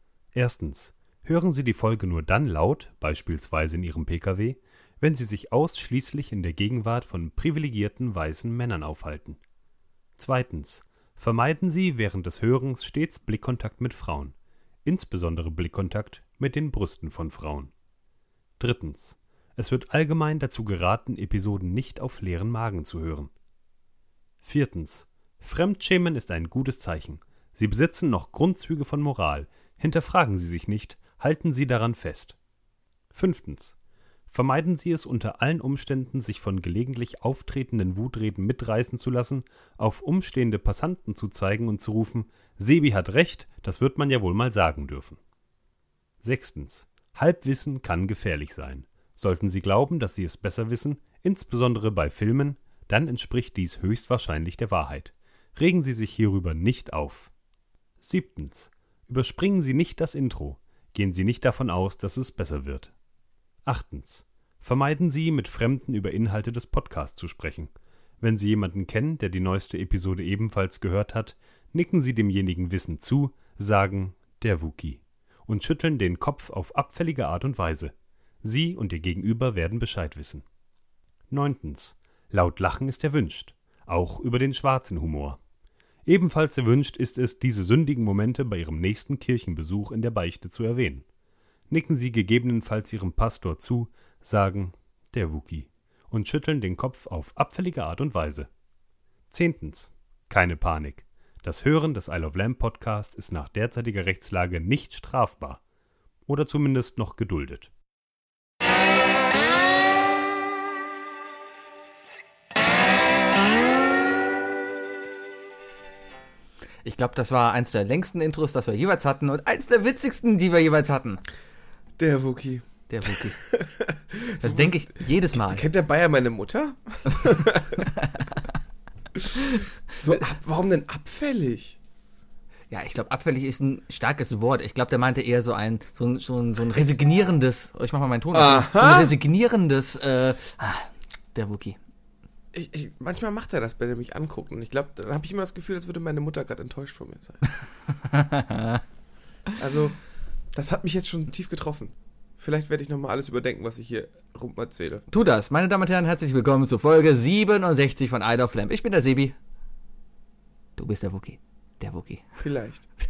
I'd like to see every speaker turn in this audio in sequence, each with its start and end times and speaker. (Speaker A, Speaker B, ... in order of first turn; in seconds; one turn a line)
Speaker A: 0.3-9.4
Speaker A: 10.2-14.3
Speaker A: 14.8-17.7
Speaker A: 18.6-23.3
Speaker A: 24.4-32.4
Speaker A: 33.1-33.8
Speaker A: 34.3-45.2
Speaker A: 46.2-57.3
Speaker A: 58.0-62.9
Speaker A: 63.6-80.4
Speaker A: 81.3-85.4
Speaker A: 86.1-91.0
Speaker A: 91.7-98.5
Speaker A: 99.3-105.6
Speaker A: 106.3-107.7
Speaker B: 116.8-121.2
Speaker C: 122.0-122.7
Speaker B: 122.9-123.4
Speaker C: 123.3-124.8
Speaker B: 124.4-125.6
Speaker C: 125.3-127.9
Speaker B: 127.8-128.2
Speaker C: 130.0-131.8
Speaker B: 132.7-141.8
Speaker C: 138.3-139.2
Speaker C: 142.5-147.4
Speaker B: 147.9-148.8
Speaker C: 149.6-150.0
Speaker C: 150.5-155.1
Speaker B: 155.1-159.4
Speaker B: 160.8-162.4
Speaker C: 162.4-162.8